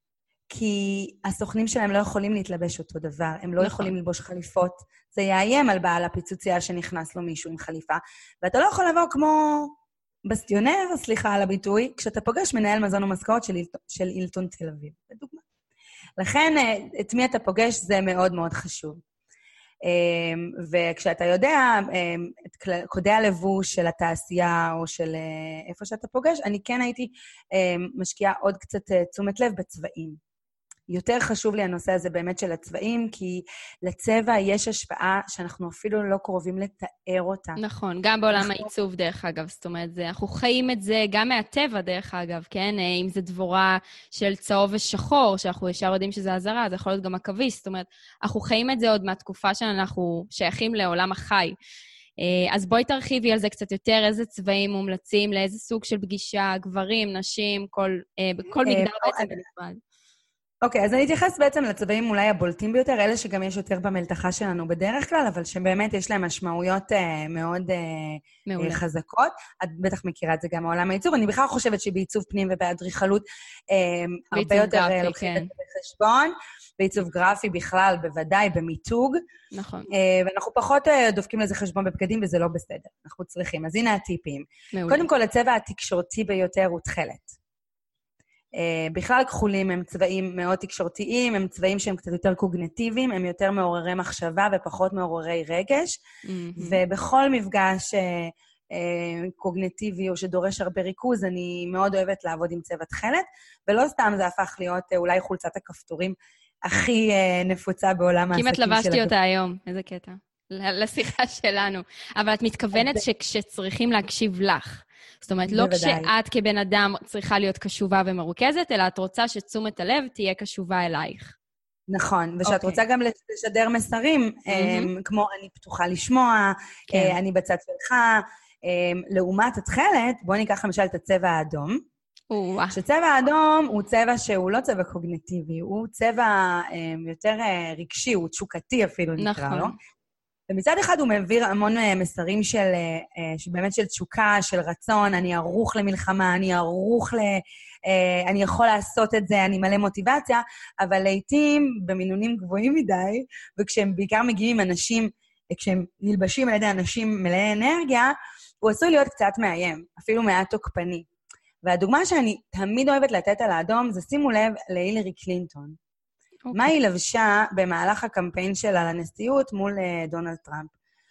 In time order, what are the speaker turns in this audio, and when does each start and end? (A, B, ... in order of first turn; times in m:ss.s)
0:00.5-0:09.7 A
0:03.6-0:03.9 B
0:10.3-0:15.4 A
0:16.2-0:19.0 A
0:19.8-0:30.2 A
0:30.9-0:37.6 A
0:37.6-0:51.6 B
0:38.4-0:38.7 A
0:52.2-0:59.8 B
0:58.7-0:59.4 A
1:00.6-1:19.2 A
1:08.5-1:08.8 B
1:14.3-1:15.5 B
1:19.5-1:19.9 B
1:19.9-1:27.4 A
1:24.7-1:25.1 B
1:28.6-1:36.0 A
1:36.2-1:36.8 B
1:36.6-1:49.1 A
1:48.3-2:01.4 B
1:52.7-1:53.0 A
1:55.5-1:56.1 A
2:01.9-2:11.8 A
2:02.4-2:02.8 B
2:04.5-2:04.9 B
2:06.9-2:07.2 B
2:12.3-2:12.8 B
2:12.7-2:19.7 A
2:19.2-2:19.8 B
2:20.5-2:41.1 A
2:41.6-2:45.8 A
2:46.5-2:46.7 B
2:46.5-2:50.7 A